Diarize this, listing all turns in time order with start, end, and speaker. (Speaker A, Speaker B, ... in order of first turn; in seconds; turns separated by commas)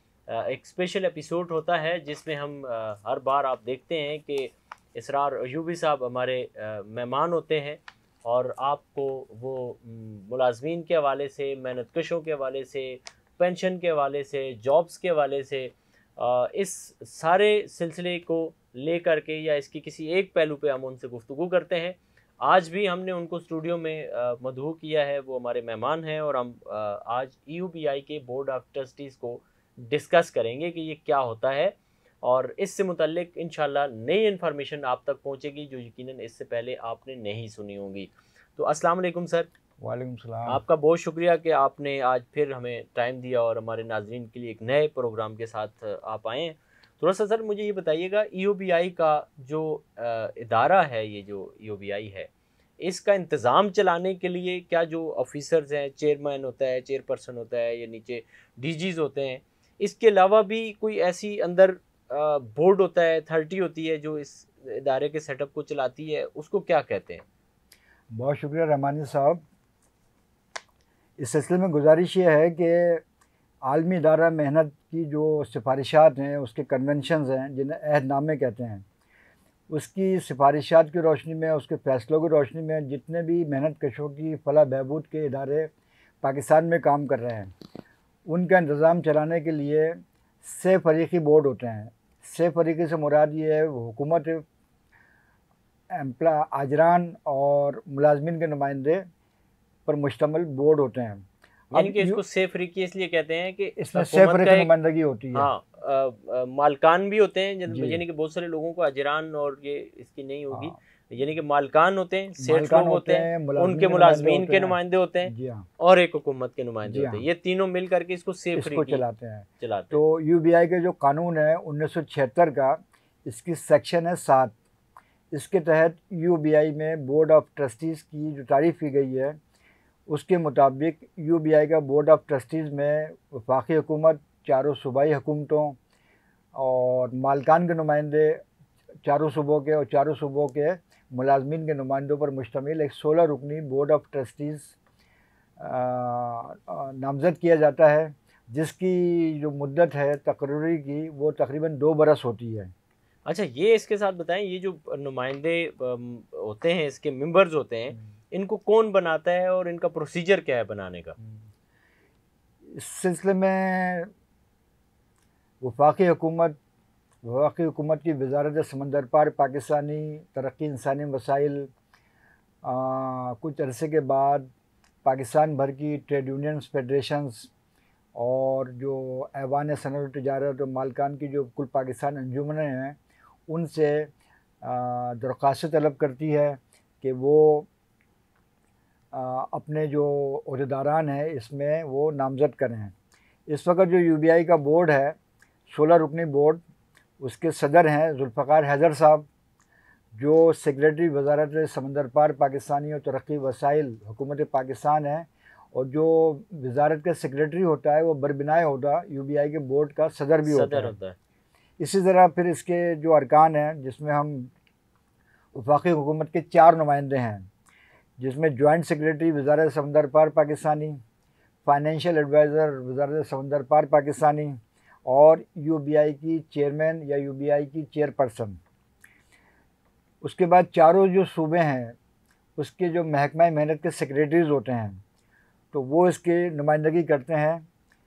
Speaker A: 0.3-39.5, Speaker B: 39.8-40.6, Speaker A: 40.5-67.2, Speaker B: 68.1-69.4, Speaker B: 71.2-73.0, Speaker B: 73.6-78.8, Speaker B: 79.7-85.7, Speaker B: 86.2-87.5, Speaker B: 88.3-94.4, Speaker B: 95.9-99.0, Speaker B: 99.8-102.2, Speaker A: 101.7-104.7, Speaker B: 103.8-105.5, Speaker A: 105.3-119.0, Speaker B: 107.7-108.0, Speaker B: 112.4-115.7, Speaker B: 116.8-117.2, Speaker B: 118.5-124.5, Speaker A: 119.6-120.0, Speaker B: 125.3-129.3, Speaker B: 130.1-135.8, Speaker B: 136.5-138.4, Speaker B: 139.0-144.7, Speaker B: 145.6-152.7, Speaker A: 153.2-161.1, Speaker B: 161.2-161.4, Speaker B: 162.8-164.1, Speaker B: 165.6-166.6, Speaker B: 167.2-171.7, Speaker B: 172.6-174.5, Speaker B: 175.0-177.5, Speaker B: 178.1-184.1, Speaker B: 184.6-187.7, Speaker B: 189.1-192.9, Speaker B: 193.5-195.2, Speaker B: 195.7-196.6, Speaker B: 197.2-199.3, Speaker B: 200.2-210.9, Speaker A: 210.4-211.2, Speaker B: 211.8-214.5, Speaker B: 215.5-217.5, Speaker B: 218.2-221.0, Speaker B: 221.6-228.6, Speaker B: 230.2-231.9, Speaker B: 232.6-235.0, Speaker B: 235.7-237.6